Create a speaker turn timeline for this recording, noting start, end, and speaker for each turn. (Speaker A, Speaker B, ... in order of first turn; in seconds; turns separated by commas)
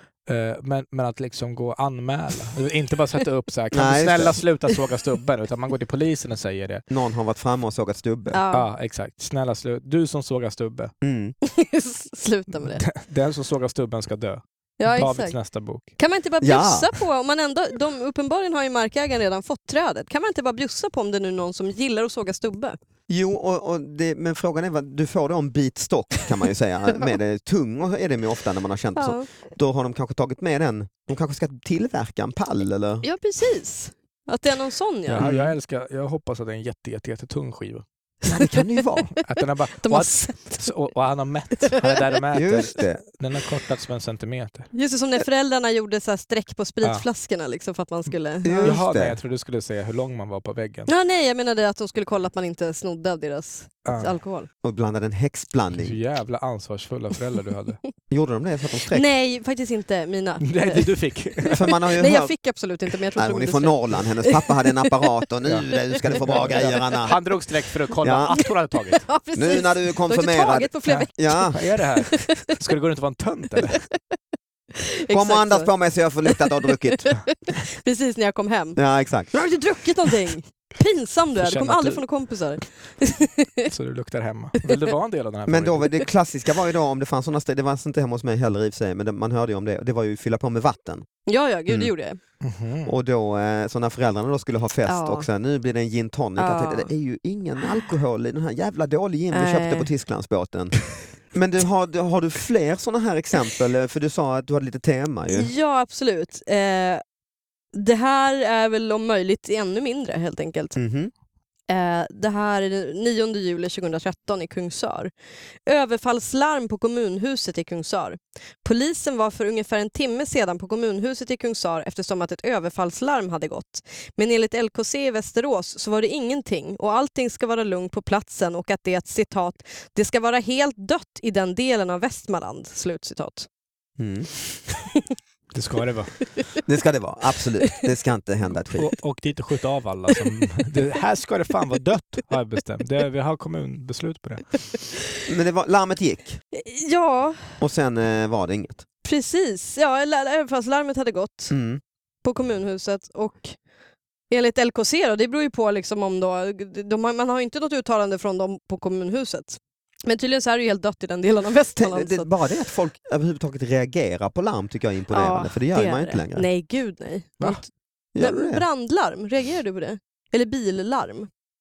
Speaker A: 0.3-6.8, Speaker B: 3.7-4.4, Speaker B: 6.9-8.4, Speaker C: 8.3-8.7, Speaker A: 8.5-10.9, Speaker B: 11.0-11.4, Speaker C: 11.4-12.9, Speaker A: 12.6-15.9, Speaker C: 14.8-15.4, Speaker C: 16.0-22.8, Speaker B: 16.4-17.0, Speaker B: 23.1-33.1, Speaker C: 29.0-29.3, Speaker C: 33.0-35.3, Speaker A: 35.1-37.9, Speaker B: 35.2-35.5, Speaker B: 38.2-39.1, Speaker A: 39.2-44.7, Speaker C: 39.8-40.7, Speaker C: 41.7-42.1, Speaker B: 42.3-43.0, Speaker C: 44.7-48.8, Speaker B: 48.4-49.2, Speaker A: 48.6-50.9, Speaker C: 50.9-54.5, Speaker A: 53.9-54.2, Speaker B: 54.6-56.0, Speaker A: 55.8-57.8, Speaker B: 58.1-59.0, Speaker C: 58.9-64.9, Speaker A: 60.4-61.7, Speaker B: 61.5-62.3, Speaker B: 63.2-67.2, Speaker A: 65.4-69.1, Speaker C: 66.1-67.1, Speaker B: 68.0-68.4, Speaker C: 69.0-72.6, Speaker B: 69.3-71.6, Speaker A: 70.9-73.8, Speaker C: 74.8-75.7, Speaker B: 75.1-77.2, Speaker C: 76.3-78.8, Speaker B: 78.8-79.5, Speaker C: 79.3-83.7, Speaker A: 81.4-82.0, Speaker A: 83.7-86.0, Speaker B: 85.5-91.1, Speaker C: 91.3-92.2, Speaker A: 92.4-92.9, Speaker B: 92.8-105.5, Speaker C: 94.9-95.3, Speaker C: 96.4-96.9, Speaker C: 99.3-99.9, Speaker C: 105.3-107.0, Speaker C: 107.7-110.8, Speaker B: 110.8-111.1, Speaker C: 111.7-115.1, Speaker C: 115.7-133.5, Speaker B: 134.0-134.3, Speaker A: 135.5-136.3, Speaker B: 136.7-138.9, Speaker A: 138.7-144.6, Speaker B: 145.2-146.4, Speaker C: 146.5-147.6, Speaker B: 147.6-148.8, Speaker C: 149.0-151.5, Speaker B: 151.5-151.8, Speaker C: 152.2-153.6, Speaker C: 154.3-162.3, Speaker B: 161.8-166.5, Speaker C: 165.1-171.3, Speaker B: 168.1-168.7